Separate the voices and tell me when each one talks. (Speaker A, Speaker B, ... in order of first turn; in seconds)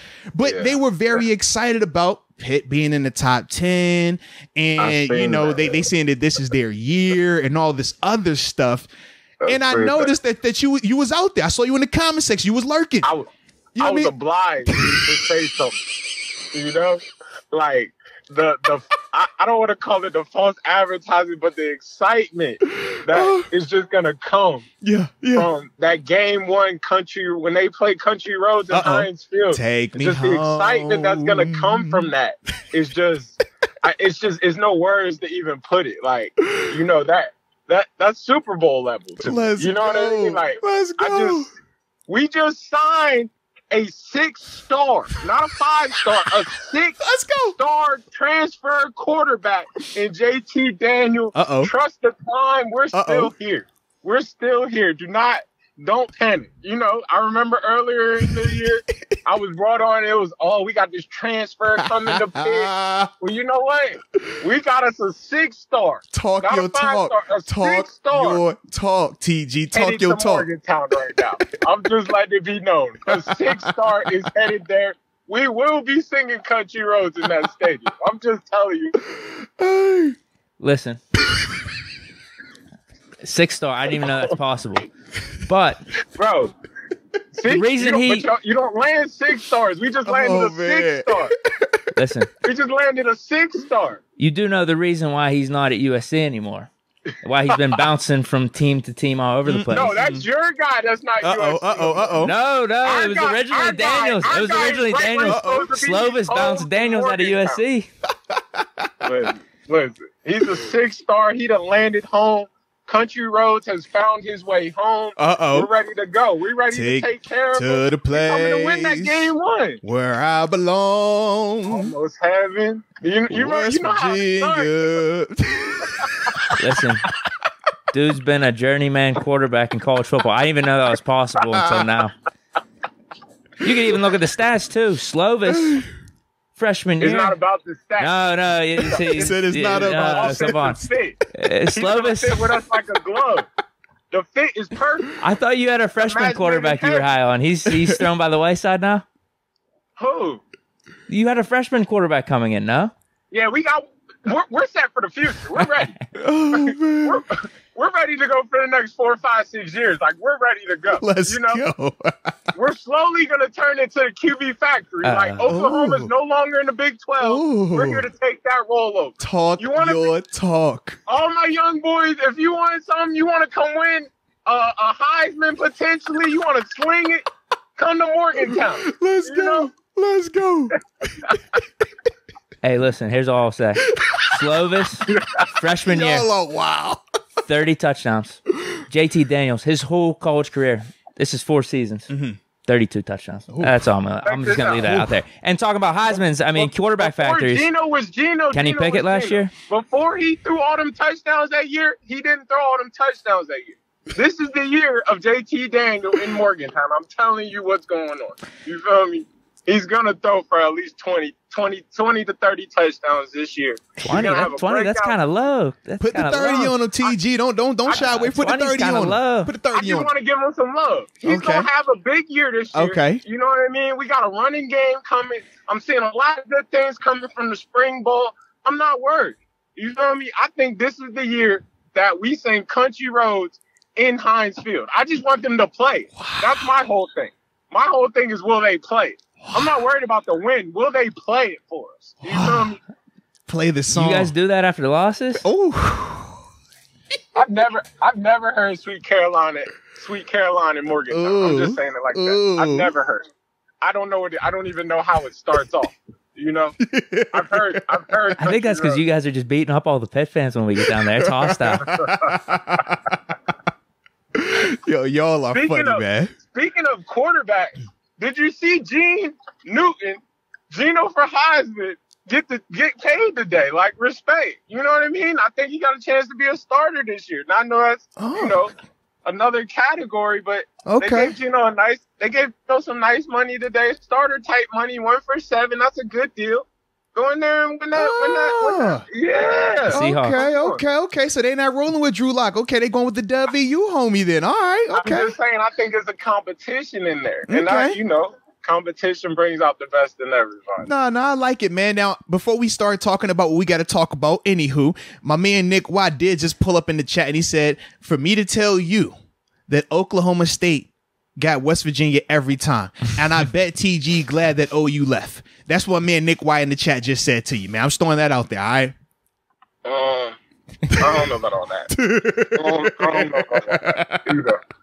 Speaker A: 0.3-8.9, 9.5-13.1, 13.8-14.1, 14.7-15.0, 22.8-23.5, 24.8-25.5, 28.7-32.1, 36.4-36.7, 39.2-41.5, 47.0-47.6, 51.3-51.7, 52.9-53.3, 58.2-58.6, 61.8-63.1, 66.1-70.5, 73.1-74.2, 79.1-80.2, 90.0-91.8, 99.5-100.2, 101.2-102.3, 105.2-105.7, 108.3-109.3, 115.2-115.7, 116.7-119.3, 119.8-121.9, 123.3-126.5, 131.5-131.8, 135.5-135.8, 139.0-140.8, 142.4-142.6, 147.7-148.0, 156.2-157.2, 160.9-162.3, 165.5-166.1, 167.2-168.1, 169.2-171.0, 178.4-180.7, 183.9-184.4, 185.9-187.0, 192.1-192.4, 193.5-193.8, 194.8-195.2, 216.0-220.1, 221.2-221.7, 222.7-223.2, 236.2-236.7, 242.2-242.8, 243.5-244.3, 245.4-246.4, 251.1-252.9, 256.8-258.2, 260.9-263.3, 264.4-266.3, 278.2-278.6, 280.9-281.4, 287.9-289.1, 289.9-295.3, 297.5-298.0, 300.8-309.1, 309.7-318.9, 320.9-321.2, 321.9-324.3
Speaker B: 0.4-1.2, 4.8-5.9, 9.4-10.1, 13.0-15.8, 16.5-24.7, 25.3-41.5, 42.1-68.4, 69.7-79.0, 84.0-84.3, 86.2-86.5, 87.3-91.3, 92.4-94.0, 97.5-97.8, 99.7-102.2, 102.8-107.6, 109.0-119.8, 121.7-125.0, 137.0-141.2, 141.8-143.5, 144.1-145.1, 146.0-147.1, 150.0-150.4, 153.3-156.0, 156.5-161.7, 162.6-170.1, 171.1-177.2, 177.8-179.7, 185.1-185.5, 194.2-195.0, 196.1-215.2, 217.8-218.2, 219.7-242.8, 247.3-253.3, 253.8-256.8, 257.3-259.0, 261.8-262.8, 265.5-278.7, 279.2-290.8, 294.9-300.9, 319.9-320.4, 321.0-321.9, 322.6-324.6
Speaker C: 80.6-81.0, 83.2-84.9, 85.5-85.8, 87.4-88.3, 91.9-92.3, 94.2-96.7, 97.2-100.0, 102.2-107.9, 126.6-127.0, 127.9-132.1, 133.6-135.8, 136.6-137.3, 138.0-140.8, 141.3-142.4, 145.2-149.1, 151.1-152.9, 155.6-155.9, 165.0-165.6, 182.6-186.3, 187.5-192.1, 192.7-197.7, 198.5-199.5, 214.0-216.8, 217.9-219.5, 243.9-245.4, 258.4-261.8, 289.9-290.4